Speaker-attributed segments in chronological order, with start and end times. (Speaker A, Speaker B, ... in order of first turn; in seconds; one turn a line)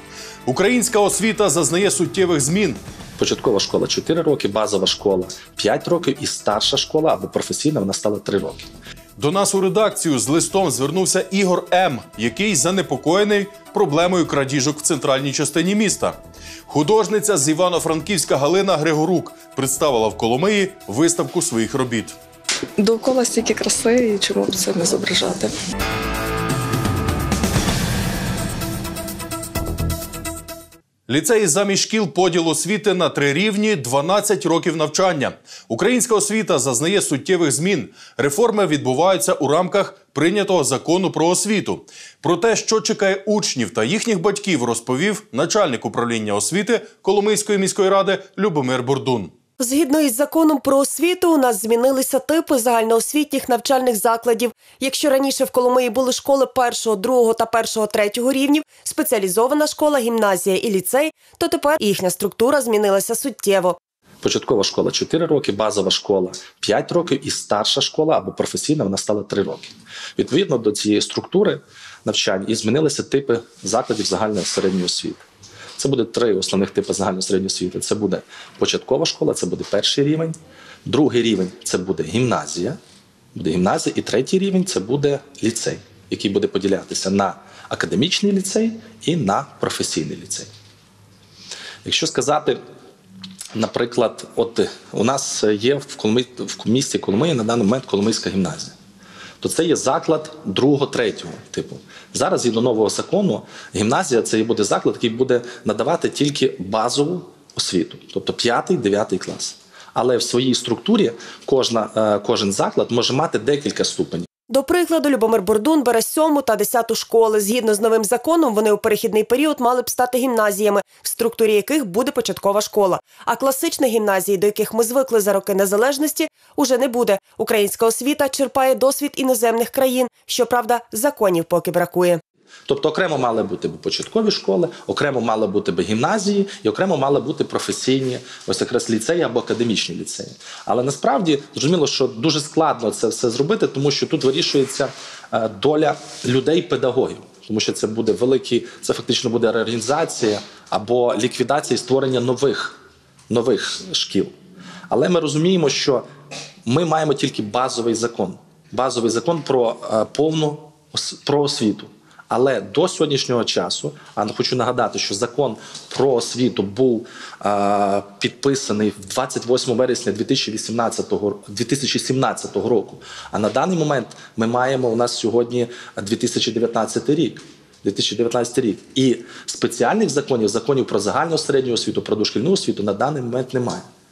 Speaker A: 0.5-2.8
Speaker B: 3.2-8.7
Speaker A: 9.2-22.1
Speaker C: 22.8-25.5
Speaker A: 31.1-49.3
Speaker D: 49.6-63.8
Speaker B: 64.2-75.2
Speaker B: 75.8-82.8
Speaker B: 83.3-90.5
Speaker B: 91.8-92.6
Speaker B: 93.5-98.7
Speaker B: 99.4-114.3
Speaker D: 114.5-132.2
Speaker B: 132.7-154.3
Speaker B: 154.9-156.1
Speaker B: 156.7-183.9